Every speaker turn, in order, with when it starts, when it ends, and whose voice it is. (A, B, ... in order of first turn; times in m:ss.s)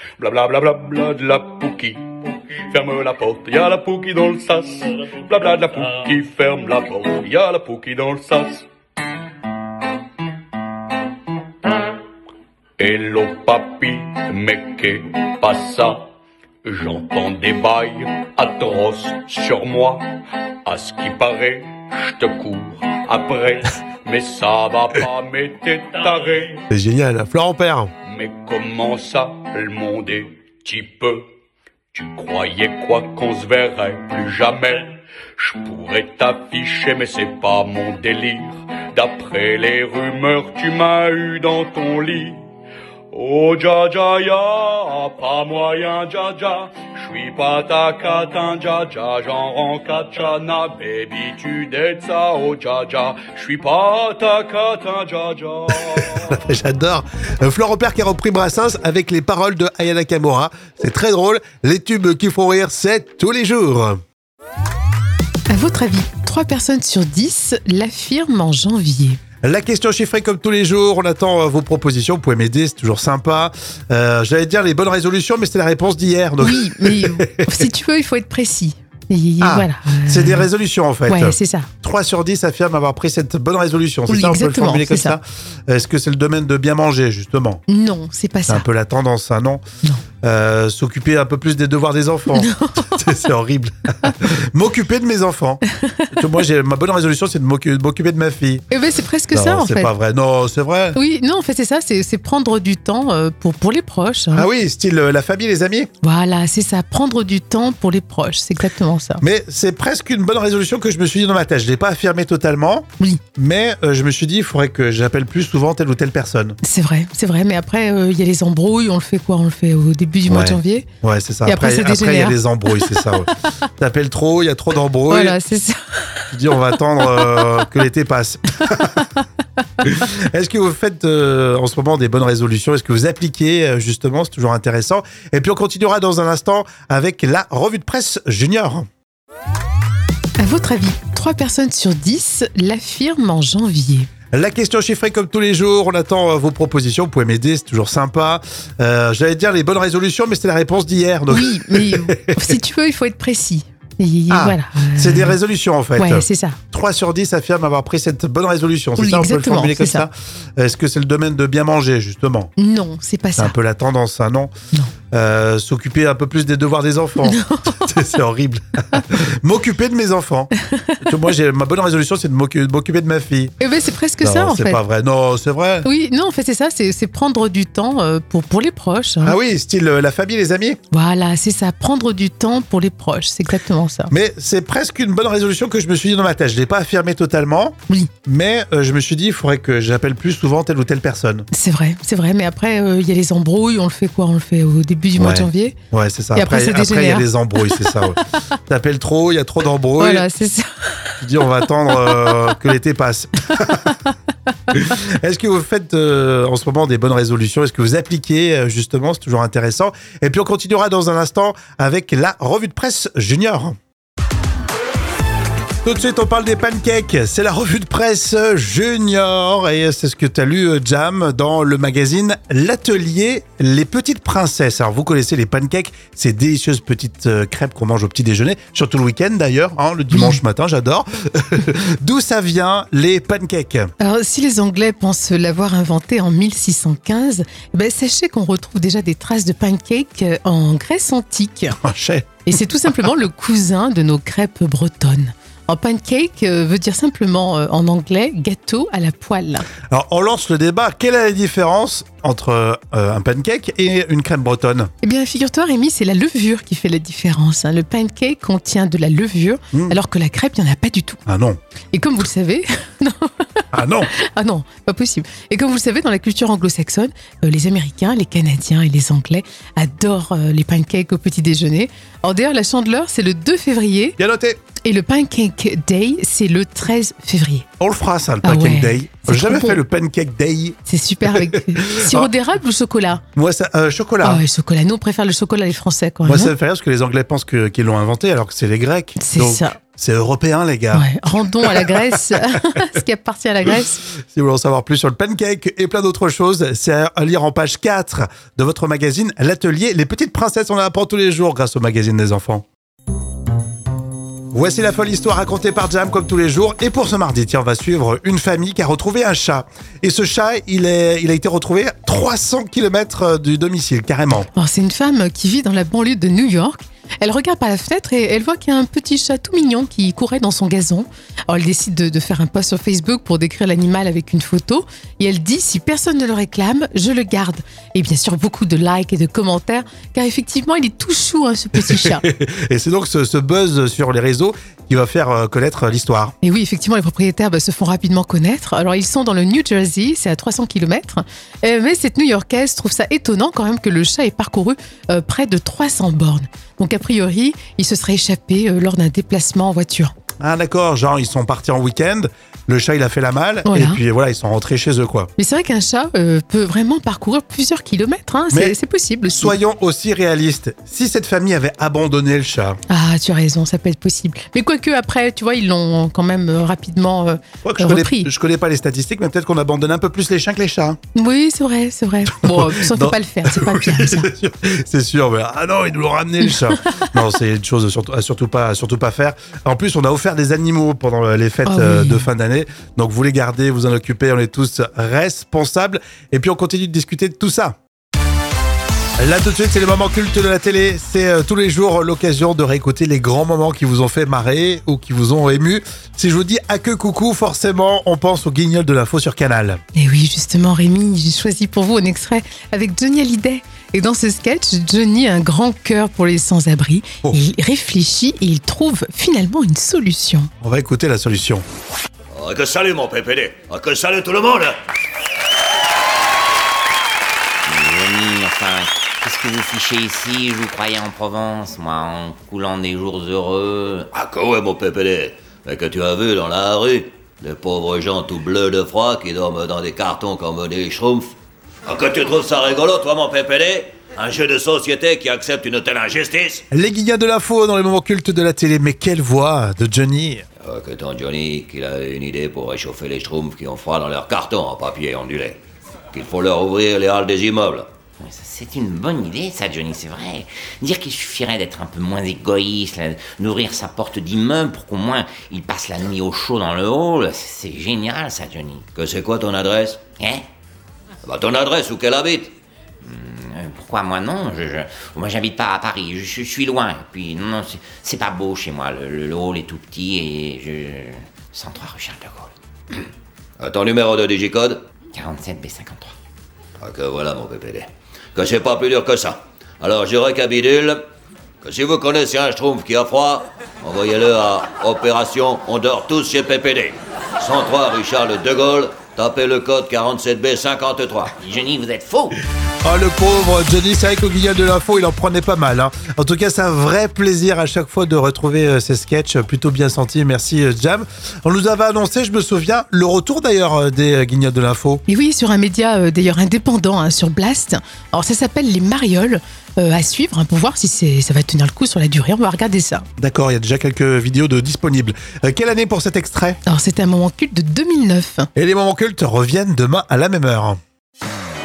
0:00.2-0:08.6 A
0:12.8-0:16.0 A
0:16.6-0:20.0 A
0:20.7-0:26.6 A
0:26.7-0:27.9 B
0:28.1-0:31.2 A
0:31.9-0:42.4 A
0:43.1-0:56.4 A
0:55.8-1:04.0 B
1:05.5-1:09.2 C
1:09.4-1:17.7 B
1:16.4-1:20.5 C
1:19.4-1:27.6 B
1:21.1-1:21.7 C
1:24.1-1:25.2 C
1:27.7-1:28.6 C
1:28.5-1:29.6 B
1:30.2-1:35.6 B
1:32.3-1:33.1 C
1:35.8-1:36.3 C
1:36.1-1:38.7 B
1:38.7-1:39.9 C
1:39.3-1:41.0 B
1:41.0-1:44.5 C
1:44.3-1:45.9 B
1:46.0-1:49.2 C
1:49.2-1:56.6 B
1:56.6-2:00.9 C
2:00.3-2:05.4 B
2:01.5-2:03.1 C
2:05.1-2:06.4 C
2:06.3-2:09.0 B
2:07.0-2:07.5 C
2:08.6-2:09.2 C
2:09.8-2:18.9 B
2:20.4-2:24.1 C
2:24.3-2:32.5 B
2:31.3-2:35.4 C
2:34.3-2:42.5 B
2:36.0-2:36.6 C
2:39.0-2:40.1 C
2:42.6-2:43.5 C
2:43.4-2:44.5 B
2:45.1-2:53.6 B
2:47.2-2:48.0 C
2:50.7-2:51.1 C
2:53.6-2:54.8 C
2:54.2-2:55.9 B
2:55.8-2:59.4 C
2:59.2-3:00.8 B
3:00.9-3:04.1 C
3:04.1-3:11.5 B
3:11.5-3:15.8 C
3:15.2-3:20.2 B
3:16.4-3:18.3 C
3:20.0-3:21.5 C
3:21.2-3:23.9 B
3:22.1-3:22.3 C
3:23.5-3:24.1 C
3:24.7-3:33.8 B
3:35.8-3:53.9 B
3:54.0-4:01.8 C
4:01.8-4:02.5 B
4:02.5-4:09.7 C
4:09.9-4:14.9 B
4:15.0-4:21.2 C
4:21.3-4:21.6 B
4:21.9-4:34.2 C
4:23.7-4:24.1 B
4:34.2-4:34.6 B
4:34.8-4:37.7 C
4:37.8-4:40.8 B
4:38.4-4:39.8 C
4:40.9-4:43.2 C
4:41.5-4:42.3 B
4:43.4-4:44.4 B
4:44.2-4:46.5 C
4:46.3-4:52.1 B
4:49.2-4:49.7 C
4:50.9-4:54.0 C
4:54.2-5:02.6 B
5:04.5-5:14.5 B
5:14.6-5:32.2 C
5:31.8-5:36.3 B
5:36.4-5:50.1 C
5:50.4-5:55.3 B
5:53.7-5:54.0 C
5:55.4-5:59.6 C
5:58.5-5:58.8 B
5:59.3-6:02.8 B
6:02.9-6:08.3 C
6:07.6-6:11.0 B
6:11.2-6:14.3 C
6:12.4-6:27.8 B
6:21.6-6:22.3 C
6:29.2-6:39.8 B
6:40.0-6:50.5 C
6:50.6-6:51.6 B
6:52.3-6:54.8 D
6:57.7-7:04.1 E
7:04.1-7:11.3 D
7:11.9-7:16.6 D
7:16.7-7:20.4 B
7:20.6-7:25.6 D
7:26.1-7:27.9 D
7:28.2-7:38.9 E
7:39.0-7:40.2 D
7:40.2-7:40.5 E
7:41.2-7:42.5 D
7:43.0-7:52.5 E
7:53.6-7:54.8 D
7:55.1-7:56.1 E
7:56.8-8:01.0 D
8:01.6-8:11.4 D
8:11.3-8:12.4 E
8:12.8-8:25.0 B
8:25.1-8:33.1 C
8:33.2-8:36.6 B
8:36.7-8:38.5 C
8:38.6-8:40.8 B